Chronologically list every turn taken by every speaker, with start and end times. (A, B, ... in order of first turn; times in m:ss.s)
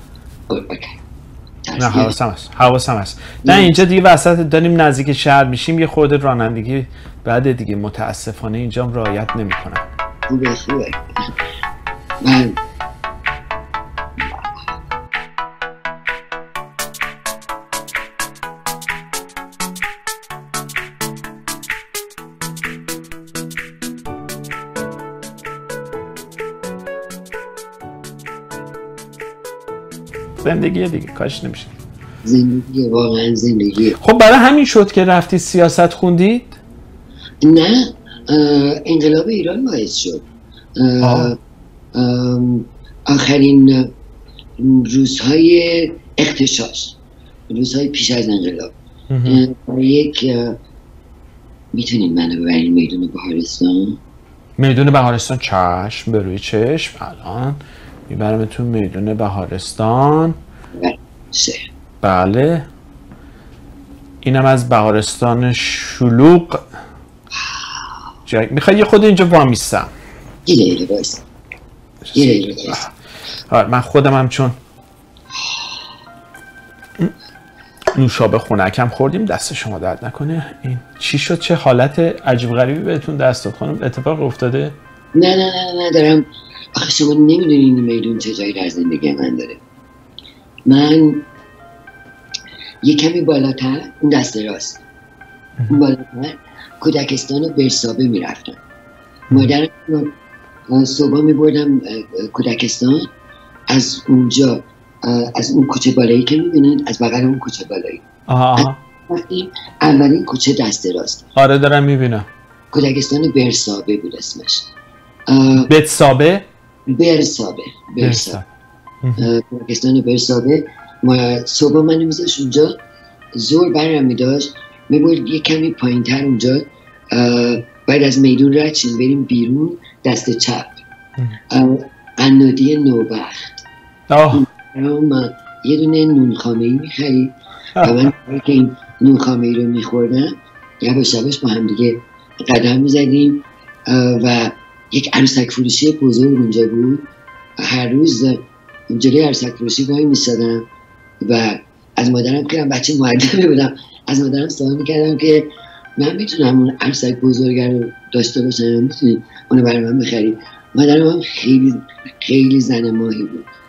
0:00.5-0:01.0 A
0:01.6-0:02.1 A
0:01.8-0:09.8 B
0:03.4-0:03.7 A
0:10.3-0:11.3 A
0:12.2-0:12.6 A
0:14.2-0:14.6 A
0:30.4-0:31.7 B
0:32.2-0:34.0 A
0:34.0-0:36.6 B
0:37.4-0:40.2 A
0:40.8-0:41.4 A
0:41.0-0:41.3 B
0:41.9-0:43.9 A
0:44.6-0:47.0 A
0:47.5-0:50.6 A
0:49.1-0:49.4 B
0:51.7-0:54.0 A
0:54.6-1:00.4 B
1:00.7-1:01.7 A
1:02.0-1:02.7 B
1:04.2-1:06.7 B
1:08.2-1:09.9 B
1:10.4-1:11.2 A
1:12.0-1:12.9 B
1:12.1-1:12.9 A
1:13.5-1:14.6 B
1:15.3-1:15.8 A
1:17.9-1:24.8 B
1:25.1-1:29.6 A
1:30.7-1:31.3 A
1:32.8-1:34.8 A
1:35.7-1:38.6 A
1:39.3-1:40.1 A
1:40.7-1:43.1 A
1:43.7-1:48.0 A
1:48.3-1:48.8 B
1:48.6-1:51.3 A
1:51.4-1:52.3 B
1:52.7-1:54.7 A
1:55.3-1:55.7 A
1:55.6-1:56.5 B
1:56.9-1:58.4 A
1:58.0-1:58.4 B
1:59.0-1:59.3 B
1:59.2-2:02.8 A
2:03.3-2:10.7 A
2:11.5-2:13.4 A
2:14.1-2:14.4 B
2:14.3-2:27.1 A
2:17.8-2:18.1 B
2:27.6-2:30.7 A
2:31.2-2:43.5 A